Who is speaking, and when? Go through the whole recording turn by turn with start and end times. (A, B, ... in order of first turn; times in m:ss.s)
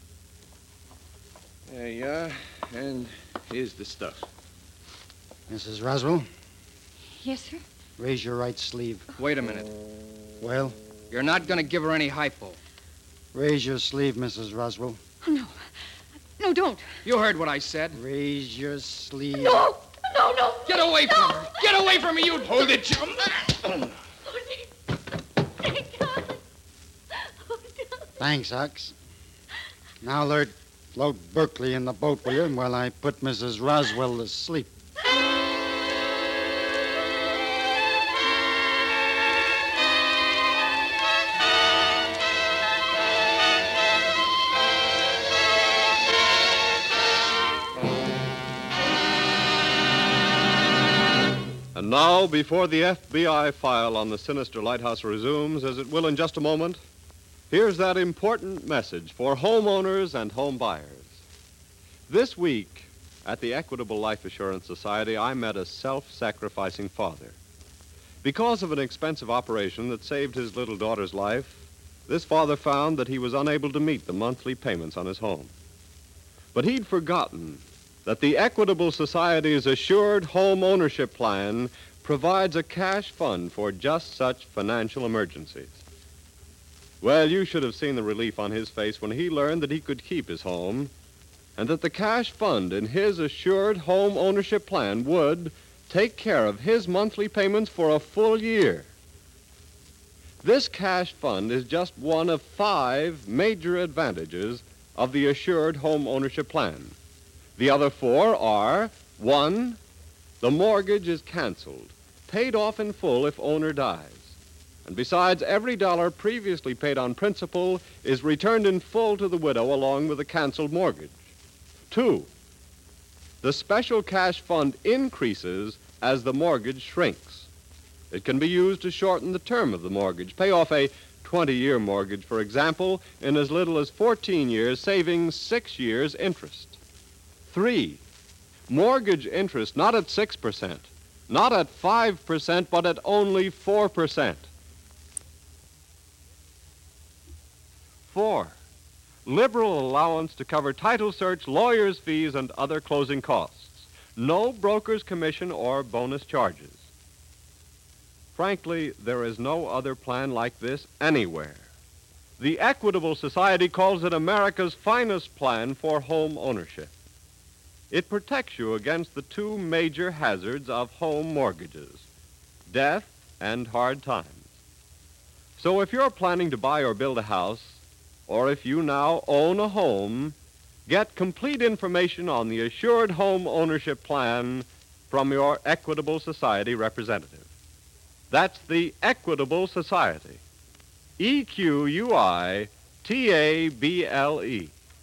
0:01.7-0:04.2 A
0:05.5-0:06.3 B
0:07.2-0:07.6 C
0:08.0-0:09.1 B
0:09.2-0:09.7 D
0:10.4-0:10.8 B
0:11.1-0:12.6 D
0:13.3-0:15.0 B
0:15.2-0:15.6 C
0:16.4-0:16.9 C
0:17.0-0:18.0 D
0:17.9-0:19.7 B
0:19.4-0:21.5 C
0:20.7-0:23.0 D
0:22.8-0:23.9 A
0:28.2-0:29.0 B
0:30.0-0:34.7 B
0:51.7-0:56.8 E
0:57.5-1:01.2 E
1:02.1-1:07.4 E
1:08.2-1:15.5 E
1:16.5-1:25.8 E
1:27.0-1:30.9 E
1:31.6-1:38.9 E
1:40.4-1:47.0 E
1:47.6-1:49.8 E
1:50.4-1:54.3 E
1:54.8-2:01.2 E
2:01.9-2:02.3 E
2:03.4-2:07.5 E
2:08.1-2:16.8 E
2:17.5-2:18.0 E
2:18.7-2:24.5 E
2:28.1-2:28.6 E
2:29.2-2:36.8 E
2:38.4-2:41.6 E
2:42.4-2:46.9 E
2:47.9-2:52.0 E
2:52.7-2:54.5 E
2:55.6-3:00.4 E
3:00.9-3:07.5 E
3:08.3-3:10.4 E
3:11.2-3:14.7 E